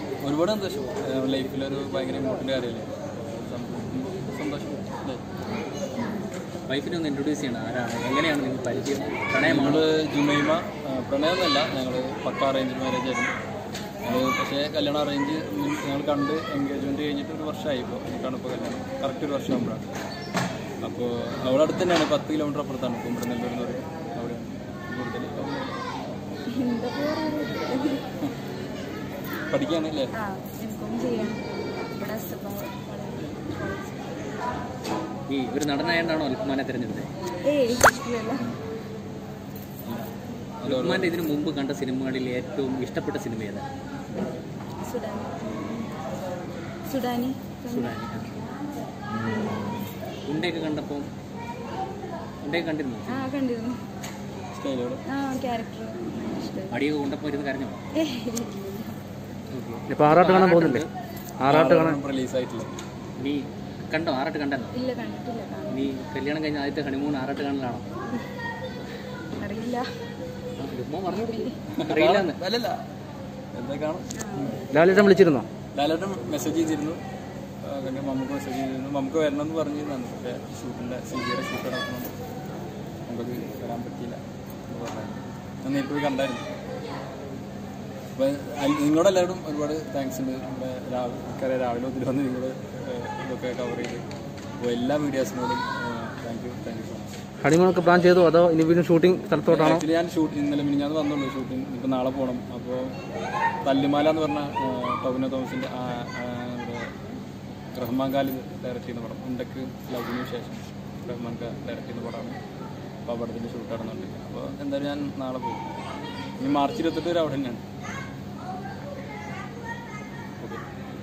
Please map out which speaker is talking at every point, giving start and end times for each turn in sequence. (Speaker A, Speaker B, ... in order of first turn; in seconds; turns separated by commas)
Speaker A: 0.2-5.2, Speaker B: 6.7-9.8, Speaker A: 9.4-13.3, Speaker A: 14.0-19.9, Speaker A: 20.8-25.8, Speaker C: 26.5-28.0, Speaker A: 29.5-30.1, Speaker C: 30.1-34.2, Speaker B: 35.3-37.1, Speaker C: 37.4-38.5, Speaker A: 39.8-40.1, Speaker A: 40.6-41.1, Speaker B: 40.6-43.6, Speaker C: 44.1-46.0, Speaker C: 46.9-48.1, Speaker B: 47.7-48.4, Speaker B: 50.2-51.1, Speaker B: 52.4-53.3, Speaker C: 53.1-53.8, Speaker A: 54.5-55.0, Speaker C: 55.1-56.8, Speaker B: 56.7-57.8, Speaker C: 58.0-59.0, Speaker B: 59.5-60.9, Speaker D: 59.9-60.8, Speaker D: 61.4-62.0, Speaker A: 61.5-62.7, Speaker B: 63.2-64.8, Speaker C: 64.7-65.9, Speaker B: 65.7-67.8, Speaker C: 69.4-69.8, Speaker B: 70.6-72.4, Speaker C: 71.1-71.5, Speaker A: 71.7-72.8, Speaker A: 73.5-75.1, Speaker C: 74.1-74.6, Speaker D: 74.7-75.5, Speaker A: 75.7-77.0, Speaker A: 77.6-82.1, Speaker A: 83.1-86.4, Speaker A: 88.2-94.0, Speaker A: 94.6-97.1, Speaker D: 97.4-99.8, Speaker A: 99.4-103.0, Speaker A: 103.6-106.9, Speaker A: 107.7-112.4, Speaker A: 113.0-115.7, Speaker A: 116.4-117.6